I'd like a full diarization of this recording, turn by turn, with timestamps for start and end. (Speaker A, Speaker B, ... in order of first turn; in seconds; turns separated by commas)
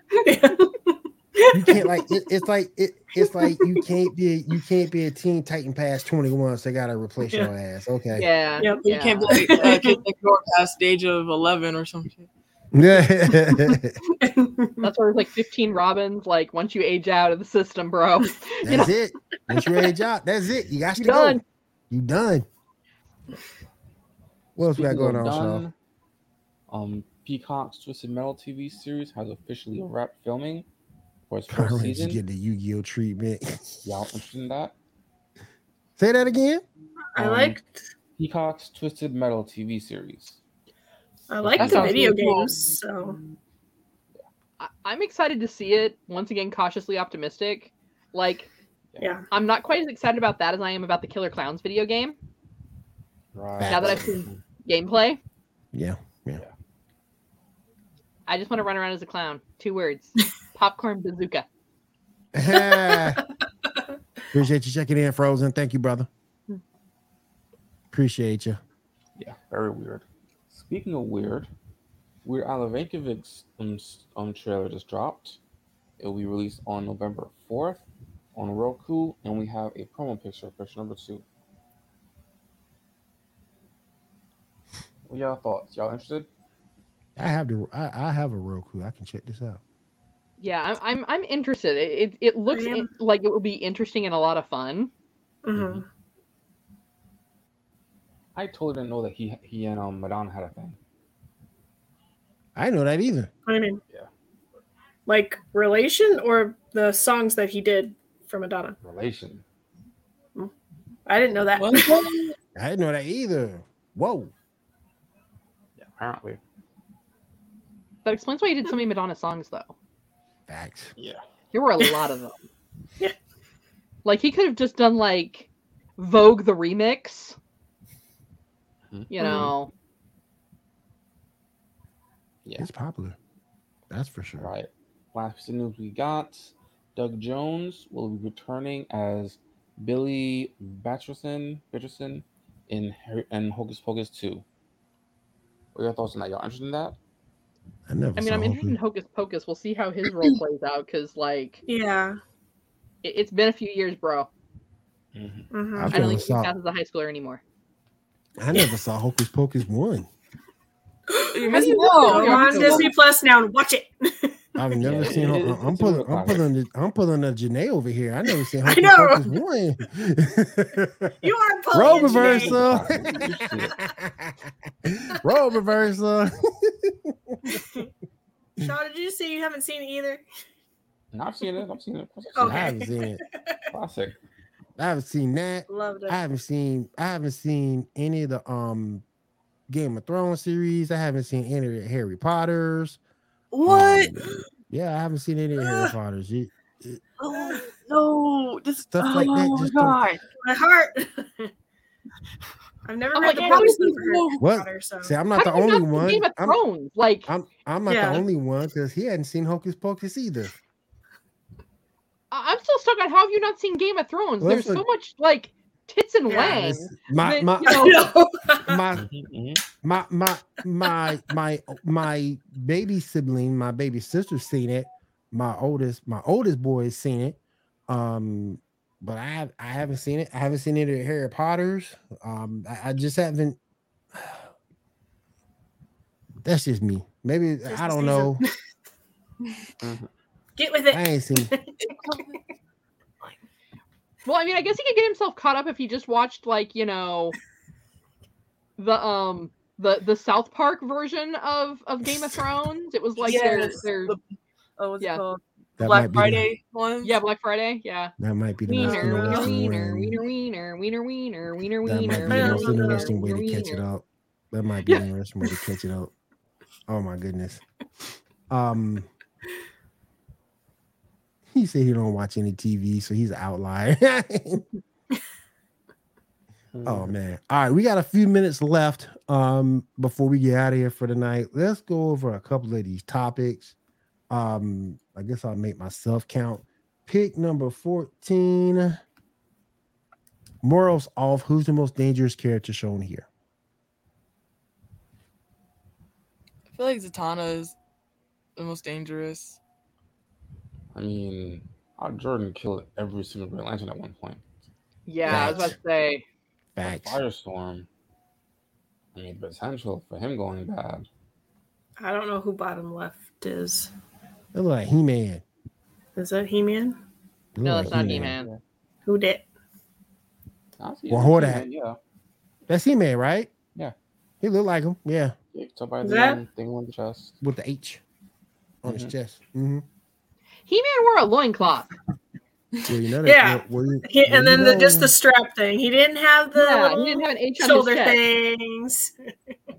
Speaker A: 0.2-2.0, Speaker B: 1.5-8.3, Speaker A: 3.2-3.9, Speaker C: 8.2-9.5, Speaker A: 8.6-10.0, Speaker D: 8.9-12.3, Speaker B: 12.7-14.0, Speaker A: 13.6-14.9, Speaker C: 14.8-18.9, Speaker B: 18.6-22.5, Speaker C: 21.0-21.4, Speaker B: 24.6-25.6, Speaker E: 24.6-25.7, Speaker E: 26.7-30.7, Speaker E: 31.3-32.2, Speaker B: 31.5-34.2, Speaker E: 33.9-34.8, Speaker B: 36.0-36.6, Speaker A: 37.2-37.8, Speaker E: 37.2-37.6, Speaker E: 38.2-40.4, Speaker A: 41.3-43.2, Speaker E: 41.4-42.1, Speaker D: 41.6-42.6, Speaker C: 44.6-48.5, Speaker A: 49.0-49.2, Speaker C: 49.3-52.2, Speaker E: 53.3-54.4, Speaker B: 53.6-54.2, Speaker C: 53.7-55.2, Speaker B: 55.7-56.4, Speaker C: 58.3-61.5, Speaker B: 62.3-63.2, Speaker A: 62.5-63.2, Speaker B: 64.3-66.1, Speaker B: 67.9-68.6, Speaker E: 69.2-71.5, Speaker E: 72.2-75.4, Speaker E: 76.0-77.8, Speaker E: 78.3-81.2, Speaker E: 85.1-86.3, Speaker B: 87.2-89.6, Speaker C: 90.4-94.9, Speaker A: 92.5-92.9, Speaker A: 95.5-95.8, Speaker E: 95.5-95.8, Speaker E: 98.3-100.8, Speaker B: 102.6-103.3, Speaker A: 103.5-103.8, Speaker A: 105.1-108.8, Speaker E: 108.8-109.4, Speaker A: 111.1-112.0, Speaker D: 111.6-112.3, Speaker B: 112.6-114.3, Speaker E: 115.8-116.4, Speaker C: 118.0-119.7, Speaker B: 120.5-120.9, Speaker C: 121.5-122.4, Speaker C: 124.0-127.4, Speaker E: 128.9-129.5, Speaker C: 129.1-129.7, Speaker A: 129.2-129.5, Speaker B: 132.6-133.2, Speaker B: 133.9-134.5, Speaker E: 134.4-144.4, Speaker E: 145.8-147.0, Speaker B: 147.9-148.8, Speaker C: 148.2-151.6, Speaker A: 151.7-152.2, Speaker C: 153.0-154.3, Speaker E: 155.2-155.5, Speaker A: 155.5-156.1, Speaker B: 155.8-156.5, Speaker C: 155.9-157.4, Speaker B: 158.4-160.1, Speaker A: 161.2-164.7, Speaker D: 161.3-162.9, Speaker C: 161.5-162.9, Speaker B: 164.6-171.1, Speaker E: 164.8-166.4, Speaker A: 168.6-169.3, Speaker A: 171.2-172.7, Speaker B: 171.7-177.8, Speaker E: 171.9-173.8, Speaker A: 175.1-175.4, Speaker A: 177.5-177.9, Speaker A: 178.6-180.2, Speaker E: 181.1-182.8, Speaker A: 182.4-183.2, Speaker B: 182.4-183.2, Speaker E: 183.7-184.2, Speaker B: 184.8-189.1, Speaker A: 185.7-186.2, Speaker B: 189.7-193.0, Speaker D: 193.5-194.4, Speaker B: 193.7-197.0, Speaker A: 195.7-195.9, Speaker D: 197.2-200.2, Speaker B: 198.9-200.0, Speaker A: 200.4-201.5, Speaker A: 202.9-205.2, Speaker C: 203.1-204.0, Speaker D: 203.2-204.4, Speaker B: 204.4-206.6, Speaker C: 205.4-207.3, Speaker B: 207.3-210.5, Speaker A: 207.9-208.2, Speaker C: 212.3-218.0, Speaker B: 214.4-214.8, Speaker A: 216.3-216.7, Speaker B: 216.4-218.1, Speaker A: 217.6-218.8, Speaker B: 218.6-219.1, Speaker E: 218.9-219.6, Speaker B: 219.8-233.6, Speaker B: 234.1-234.5, Speaker B: 236.4-238.4, Speaker A: 237.7-238.5, Speaker E: 239.8-240.1, Speaker A: 240.6-242.4, Speaker B: 240.9-241.5, Speaker D: 241.8-242.4, Speaker C: 244.3-247.4, Speaker C: 248.8-254.2, Speaker D: 253.2-254.2, Speaker D: 254.8-257.1, Speaker B: 255.8-256.5, Speaker C: 257.0-258.1, Speaker B: 258.2-260.2, Speaker A: 258.7-259.6, Speaker C: 258.7-263.9, Speaker B: 261.8-266.1, Speaker A: 262.2-263.1, Speaker B: 266.9-267.6, Speaker B: 268.5-269.1, Speaker B: 271.5-274.6, Speaker E: 276.7-277.1, Speaker B: 276.9-283.8, Speaker B: 284.3-289.0, Speaker B: 290.6-293.3, Speaker D: 296.7-297.8, Speaker D: 298.6-299.6, Speaker E: 300.9-304.4, Speaker C: 305.1-306.2, Speaker B: 305.3-305.8, Speaker E: 305.3-305.7, Speaker B: 306.8-307.2, Speaker E: 306.8-307.9, Speaker E: 309.1-311.1, Speaker A: 312.0-313.9, Speaker B: 314.5-315.4, Speaker A: 316.2-317.0, Speaker B: 317.6-318.4, Speaker C: 317.6-318.5, Speaker E: 317.9-318.6, Speaker A: 319.1-319.4, Speaker E: 320.8-322.0, Speaker B: 321.1-321.7, Speaker B: 322.7-323.5, Speaker B: 324.4-325.4, Speaker E: 325.5-327.4, Speaker A: 326.0-326.4, Speaker B: 327.4-328.0, Speaker E: 328.8-329.1, Speaker B: 328.8-329.9, Speaker C: 330.7-331.9, Speaker B: 332.9-335.1, Speaker A: 333.2-339.5, Speaker C: 336.6-338.2